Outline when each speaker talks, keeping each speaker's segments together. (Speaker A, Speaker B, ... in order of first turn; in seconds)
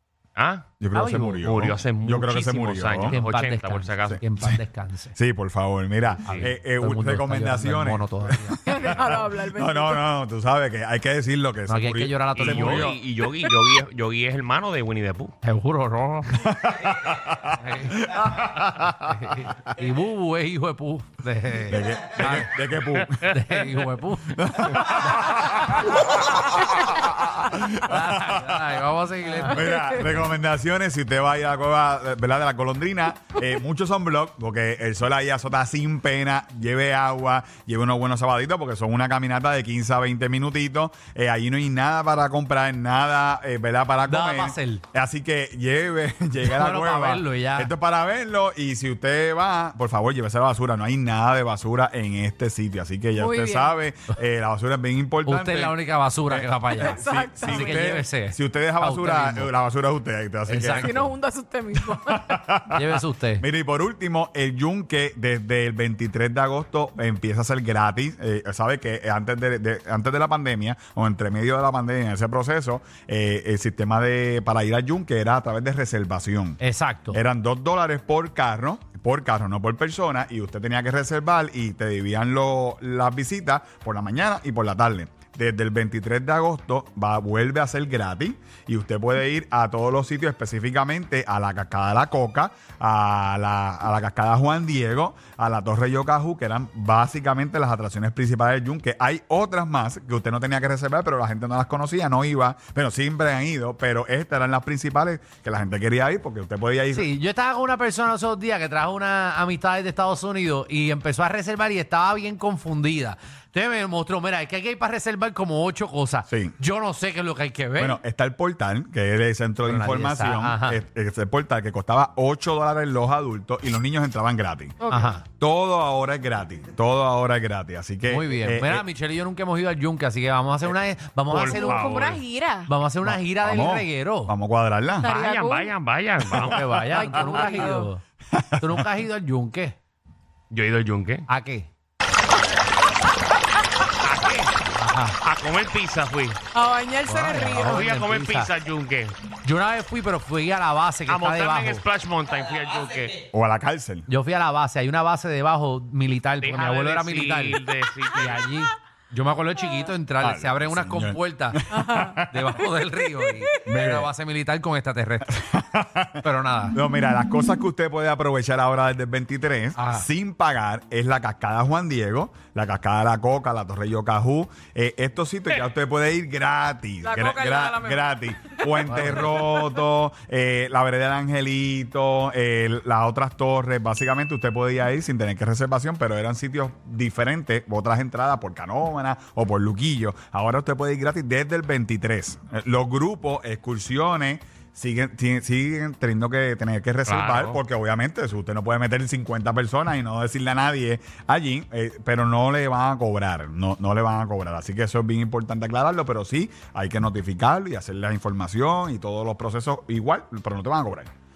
Speaker A: 0.3-0.7, 1.4-4.2, 12.3-15.3, 131.3-132.2, 135.0-137.5, 140.5-141.2, 144.0-144.5, 145.2-146.4, 147.7-149.2, 151.1-153.2, 156.4-158.4, 197.1-197.6
Speaker B: 0.8-3.2, 4.1-4.6, 5.2-13.0, 16.3-19.6, 21.7-23.3, 24.3-28.7, 29.4-61.1, 61.8-76.6, 77.1-107.1, 116.3-116.5, 117.8-124.8, 125.3-128.8, 131.6-132.1, 133.0-135.1, 138.3-138.9, 153.3-154.1, 160.2-162.3, 163.6-164.1, 165.3-211.1
Speaker C: 0.9-1.4, 3.0-5.2, 6.2-8.6, 11.7-12.9, 15.4-16.4, 17.5-25.6, 27.6-30.3, 44.0-44.8, 46.4-47.7, 55.2-59.5, 60.5-61.0, 62.7-63.4, 76.6-77.2, 106.9-118.0, 119.6-120.8, 124.9-125.2, 128.1-131.6, 132.7-134.3, 136.4-138.0, 138.6-139.8, 141.3-141.7, 144.7-145.2, 147.0-148.5, 149.4-151.8, 154.1-157.6, 158.2-165.4, 166.2-166.8, 169.8-170.1, 178.8-179.2
Speaker D: 8.6-10.1, 29.7-30.0, 53.1-53.7, 56.8-58.0, 60.8-62.5, 124.8-125.2, 131.3-132.7, 135.0-135.7, 136.3-137.9, 146.5-147.8, 161.7-162.2, 177.0-178.7